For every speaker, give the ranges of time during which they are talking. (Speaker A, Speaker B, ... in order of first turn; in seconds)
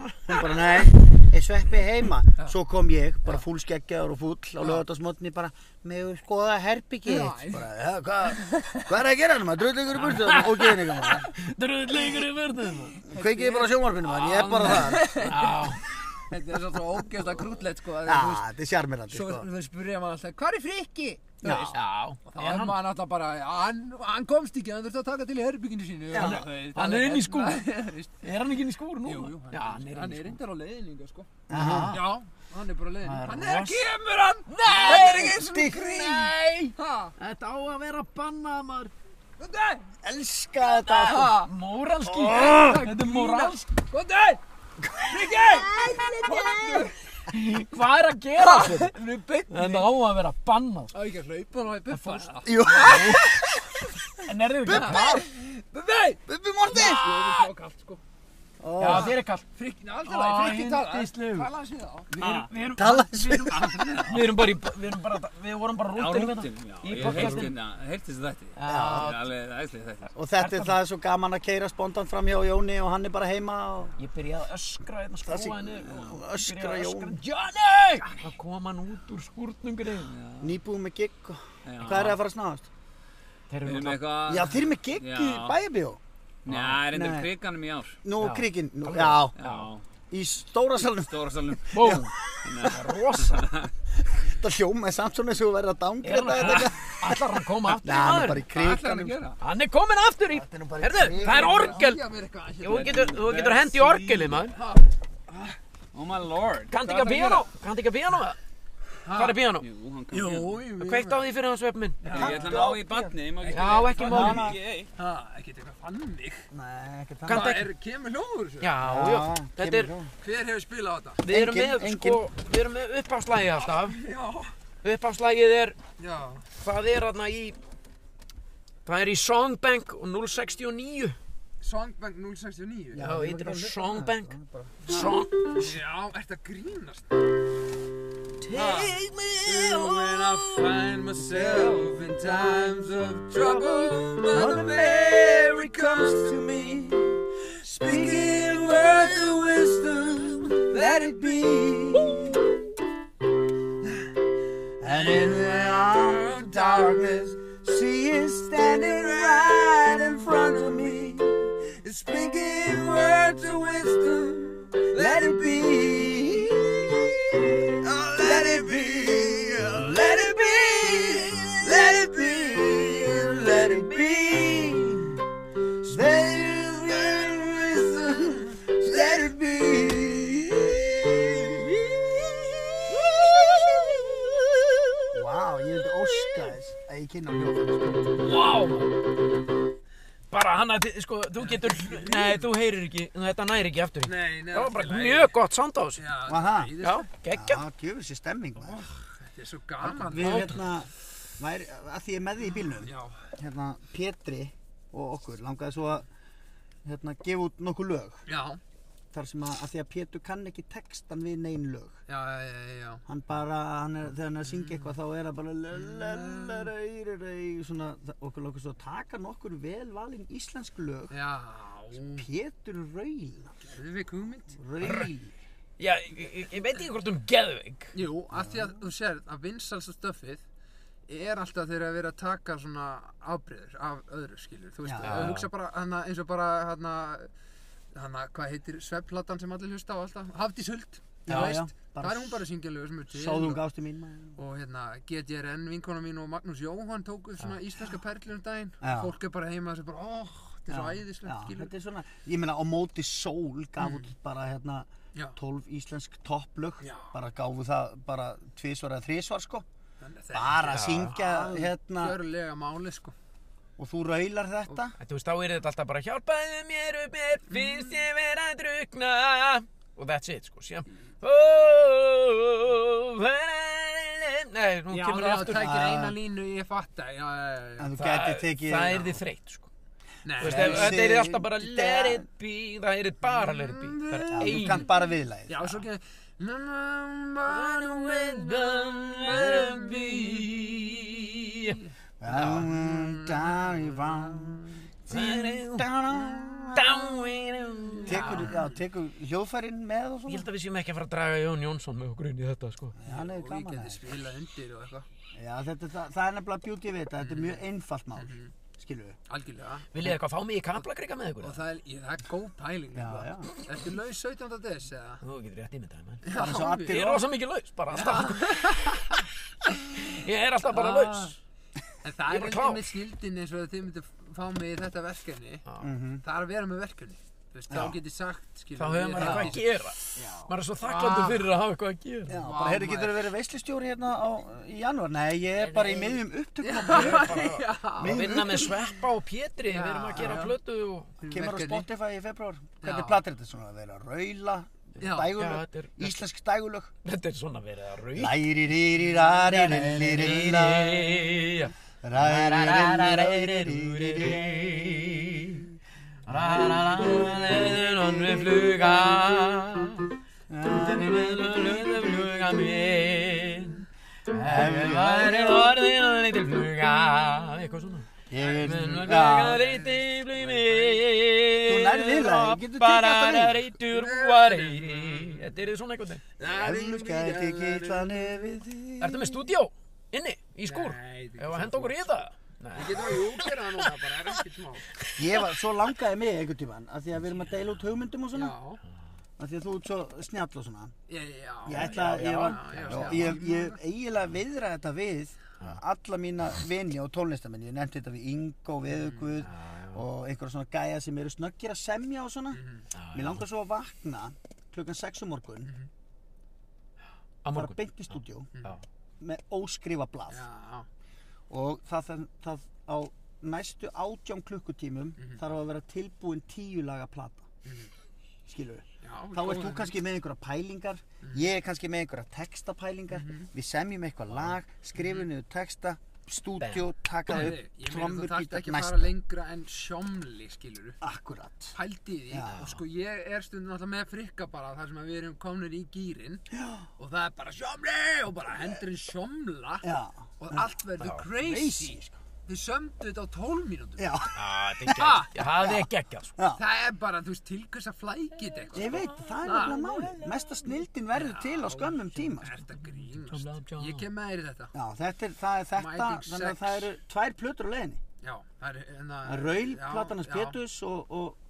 Speaker A: 0.2-11.3, 13.1-15.3, 18.0-19.5, 21.4-21.8, 26.1-26.4, 31.5-32.0, 34.8-35.8, 40.0-41.3, 42.1-42.6, 44.8-46.9, 52.4-53.6, 54.6-55.3, 56.2-57.3, 58.6-59.1, 62.8-64.2, 68.7-69.1, 70.1-73.9, 75.2-77.2, 80.4-82.7, 84.2-86.0, 86.7-87.3, 88.0-89.3, 90.1-91.2, 91.7-92.1, 94.0-99.2, 100.3-101.7, 112.1-113.2, 114.0-114.5, 116.5-117.5, 118.8-120.1, 121.3-122.2, 132.9-134.8, 141.2-141.8, 143.4-152.5, 154.8-161.7, 164.9-175.2, 175.8-182.3, 182.8-183.1, 185.1-188.2, 196.3-196.7, 197.3-198.9, 199.8-206.1, 206.8-208.2, 209.1-212.0, 213.1-221.1, 222.1-223.5, 224.6-225.3, 228.3-228.7, 234.8-235.2, 241.2-242.4, 243.1-244.4, 248.8-249.1, 250.7-259.7, 260.3-262.2, 263.8-264.9, 275.6-276.2, 277.8-279.1, 280.4-282.2, 284.3-285.6, 292.2-297.2, 298.1-300.5, 302.9-304.1, 305.3-309.2, 312.9-313.5, 316.3-317.2, 325.8-326.2, 327.7-328.0, 329.2-329.6, 330.2-330.5, 332.3-338.7, 341.2-346.9, 348.1-351.2, 352.0-355.1, 356.3-358.6, 360.5-362.7, 364.4-365.8, 368.3-369.6, 371.6-373.7, 376.4-379.4, 385.2-388.6, 389.4-390.9, 391.6-402.6, 403.1-405.7, 407.5-408.5, 409.2-410.4, 411.5-417.5, 418.5-429.1, 431.0-431.8, 432.3-432.6, 436.5-436.9, 439.8-440.7, 441.4-442.1, 444.0-445.0, 445.6-445.9, 448.7-452.6, 454.7-458.0, 459.2-461.4
Speaker B: 7.0-7.7, 8.4-8.8, 12.9-18.5, 19.1-28.3, 29.0-37.1, 39.4-39.9, 40.7-41.5, 42.2-44.4, 45.0-47.0, 48.4-50.0, 50.9-53.5, 54.7-58.0, 58.8-62.1, 63.5-64.2, 67.0-67.4, 98.5-99.4, 101.1-103.0, 104.5-105.5, 107.0-107.5, 109.0-109.4, 110.1-111.3, 112.0-112.7, 113.4-114.2, 115.0-116.5, 117.3-118.7, 120.2-121.2, 123.7-124.5, 126.0-126.5, 131.6-133.0, 134.9-137.3, 138.5-146.4, 147.7-149.5, 150.6-151.6, 155.0-157.0, 158.8-160.8, 161.8-166.3, 167.8-169.7, 191.4-192.4, 194.0-195.3, 196.0-197.1, 198.6-200.7, 202.8-203.2, 208.3-208.6, 212.1-213.0, 214.4-214.9, 215.8-216.7, 221.1-222.2, 223.6-224.6, 227.9-230.4, 231.1-237.3, 237.9-243.6, 244.3-251.7, 253.8-254.1, 256.8-257.1, 260.0-263.1, 267.6-267.9, 274.9-277.9, 280.2-281.0, 283.3-284.9, 285.5-290.5, 292.4-294.6, 298.0-298.8, 303.0-305.1, 307.2-307.6, 308.2-308.5, 309.3-310.1, 311.4-315.2, 316.2-317.1, 317.9-319.2, 320.7-321.4, 322.0-325.6, 326.2-331.5, 332.3-333.3, 336.6-338.7, 339.6-340.6, 341.2-341.9, 342.8-343.2, 345.0-345.3, 349.2-350.1, 368.4-371.1, 373.9-375.5, 376.4-378.5, 380.6-382.0, 382.7-384.9, 388.3-388.8, 391.1-393.8, 398.9-399.3, 402.5-402.9, 405.6-405.9, 410.3-410.9, 415.2-415.4, 417.6-417.9, 419.0-419.9, 423.1-423.5, 425.0-425.2, 427.3-431.0, 431.7-436.4, 437.0-444.2, 444.9-445.3, 446.5-450.0, 451.1-454.7, 455.7-456.9, 458.2-460.6
Speaker C: 10.0-13.0, 14.3-15.8, 21.7-22.8, 26.1-27.7, 28.2-30.4, 31.5-32.1, 33.0-33.9, 34.5-38.9, 40.8-43.7, 47.3-49.0, 49.5-50.9, 51.9-53.3, 54.2-55.2, 58.8-59.5, 60.0-61.5, 62.1-67.5, 68.5-69.3, 70.4-70.8, 74.0-80.1, 83.5-84.2, 86.5-86.8, 88.2-89.7, 91.7-93.5, 96.0-98.5, 99.4-102.0, 102.6-104.5, 106.7-108.4, 109.1-109.6, 110.8-112.1, 113.5-114.5, 117.2-117.7, 118.6-119.9, 121.2-124.0, 124.8-125.8, 126.5-127.6, 128.8-131.2, 133.0-135.7, 138.4-140.6, 188.2-189.0, 190.3-196.0, 196.8-197.6, 200.2-200.6, 225.8-227.9, 235.0-235.5, 260.7-261.2, 265.0-275.7, 277.9-279.7, 280.4-284.9, 287.4-292.7, 295.1-296.0, 296.7-298.5, 300.3-303.0, 309.9-311.6, 315.2-319.0, 319.7-321.4, 322.3-322.9, 328.8-332.4, 335.5-336.2, 336.8-341.1, 345.0-346.2, 347.0-348.4, 349.5-355.6, 356.2-360.1, 360.6-376.2, 379.0-383.8, 391.7-393.4, 399.4-400.0, 402.9-403.4, 407.4-408.8, 426.6-427.5, 432.5-432.8, 441.0-441.2, 444.3-446.4, 448.7-450.8, 453.2-454.1
Speaker D: 62.2-62.5, 65.9-70.1, 80.0-80.6, 81.6-82.2, 83.6-85.6, 86.4-88.0, 89.4-89.8, 90.9-93.7, 102.6-104.5, 105.9-107.4, 109.6-110.6, 112.1-114.9